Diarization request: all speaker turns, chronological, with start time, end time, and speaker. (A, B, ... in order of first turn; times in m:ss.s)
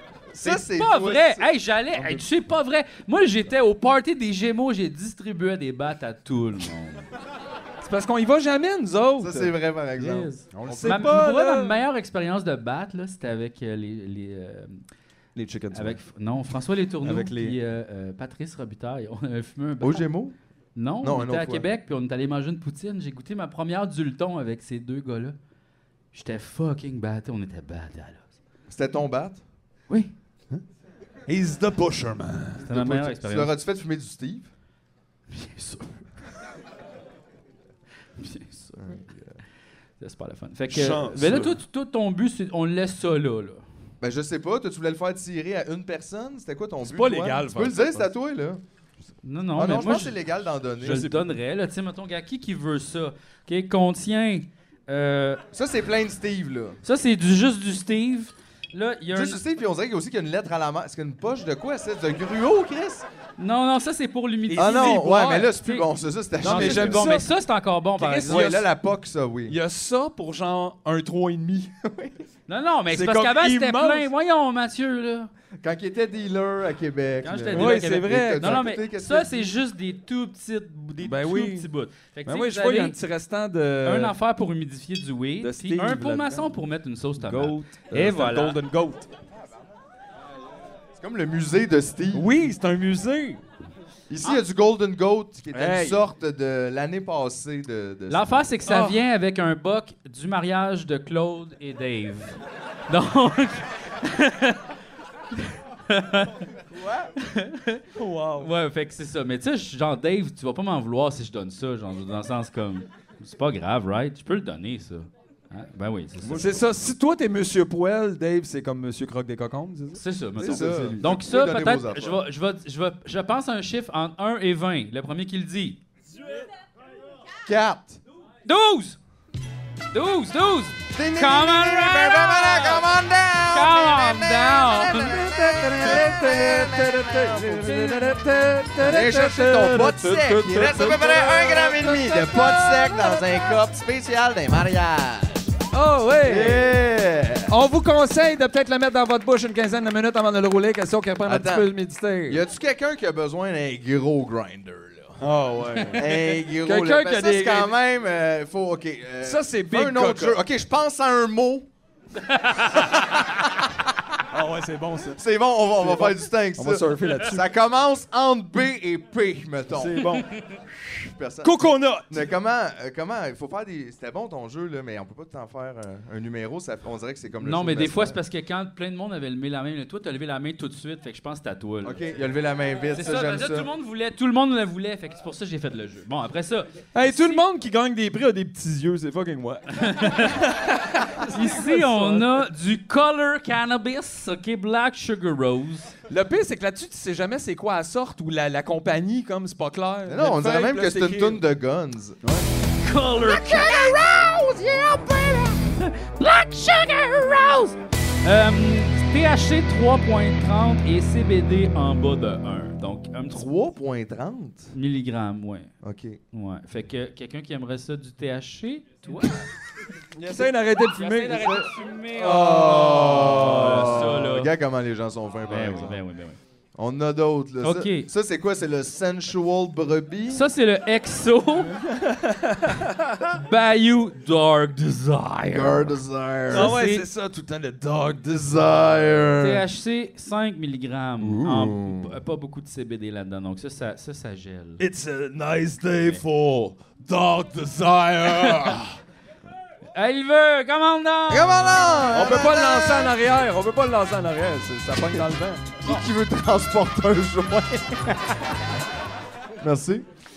0:00.3-0:01.5 A
0:00.4-0:07.1 B
0:01.9-0:02.3 C
0:07.8-0:09.5 C
0:09.2-0:11.1 A
0:10.0-0:14.8 B
0:10.5-0:11.8 C
0:15.4-0:16.0 C
0:15.7-0:20.1 B
0:17.0-0:17.6 C
0:19.8-0:20.4 A
0:20.8-0:25.4 B
0:21.0-0:21.7 A
0:26.1-0:28.3 B
0:28.7-0:29.4 A
0:29.9-0:30.1 B
0:31.3-0:32.6 C
0:32.6-0:34.5 A
0:32.6-0:33.5 B
0:35.3-0:36.0 B
0:38.2-0:39.0 B
0:38.8-0:39.4 A
0:40.0-0:43.6 B
0:40.7-0:41.6 C
0:44.0-0:48.6 A
0:46.8-0:48.1 C
0:49.2-0:50.2 B
0:49.6-0:51.1 A
0:50.8-0:51.2 C
0:50.8-0:55.4 B
0:55.5-0:56.8 A
0:56.8-0:59.4 B
0:59.1-1:03.1 A
1:03.4-1:05.9 B
1:04.5-1:05.5 C
1:04.5-1:07.2 A
1:06.4-1:08.6 B
1:06.4-1:07.3 C
1:08.0-1:08.7 C
1:08.3-1:09.6 A
1:09.5-1:11.7 C
1:11.8-1:12.3 A
1:12.5-1:15.3 B
1:12.9-1:14.1 C
1:15.6-1:19.6 A
1:17.2-1:23.0 B
1:17.5-1:18.6 C
1:21.0-1:21.7 C
1:22.2-1:24.1 C
1:23.8-1:28.6 B
1:25.4-1:26.5 C
1:27.2-1:29.1 C
1:31.0-1:32.3 A
1:32.1-1:33.4 C
1:34.1-1:38.5 A
1:35.5-1:36.0 C
1:38.1-1:44.6 B
1:38.7-1:39.0 C
1:45.4-1:46.5 B
1:46.8-1:47.0 A
1:47.2-1:47.8 B
1:48.0-1:48.5 C
1:48.4-1:56.6 B
1:56.2-2:01.0 C
2:00.0-2:05.8 B
2:00.4-2:02.2 A
2:07.4-2:08.0 A
2:08.4-2:09.0 B
2:09.9-2:12.9 B
2:10.9-2:18.2 A
2:13.5-2:15.1 B
2:15.0-2:23.2 C
2:17.7-2:18.0 B
2:18.8-2:25.6 A
2:25.7-2:26.8 C
2:26.2-2:27.6 A
2:27.5-2:32.4 C
2:31.2-2:31.7 A
2:32.3-2:35.2 A
2:35.2-2:37.8 C
2:35.9-2:41.7 A
2:39.2-2:40.4 C
2:42.2-2:43.0 B
2:44.3-2:45.2 C
2:45.1-2:50.1 A
2:45.8-2:47.5 C
2:49.7-2:50.3 C
2:50.9-2:58.2 A
2:51.4-2:52.3 C
2:57.4-3:02.0 B
3:01.8-3:03.7 A
3:02.9-3:07.4 B
3:06.9-3:12.4 C
3:09.8-3:10.4 B
3:11.3-3:16.0 B
3:16.1-3:21.4 C
3:20.1-3:22.2 A
3:22.2-3:22.5 C
3:22.8-3:33.5 B
3:23.3-3:24.0 A
3:33.3-3:34.7 A
3:34.7-3:35.7 B
3:35.8-3:36.2 A
3:36.3-3:39.5 B
3:40.2-3:41.7 C
3:40.9-3:44.5 B
3:41.3-3:46.0 A
3:42.2-3:44.2 C
3:45.5-3:46.4 B
3:46.8-3:50.5 A
3:47.6-3:48.1 B
3:50.3-3:51.7 B
3:51.7-3:53.3 C
3:53.3-3:56.0 B
3:55.5-3:56.8 A
3:56.5-3:57.1 B
3:56.5-3:59.4 C
3:58.3-3:59.6 A
3:59.4-4:04.8 B
4:01.2-4:02.2 A
4:04.8-4:09.0 C
4:10.0-4:12.0 B
4:11.3-4:13.1 A
4:12.1-4:15.7 C
4:15.8-4:18.5 A
4:19.6-4:20.1 A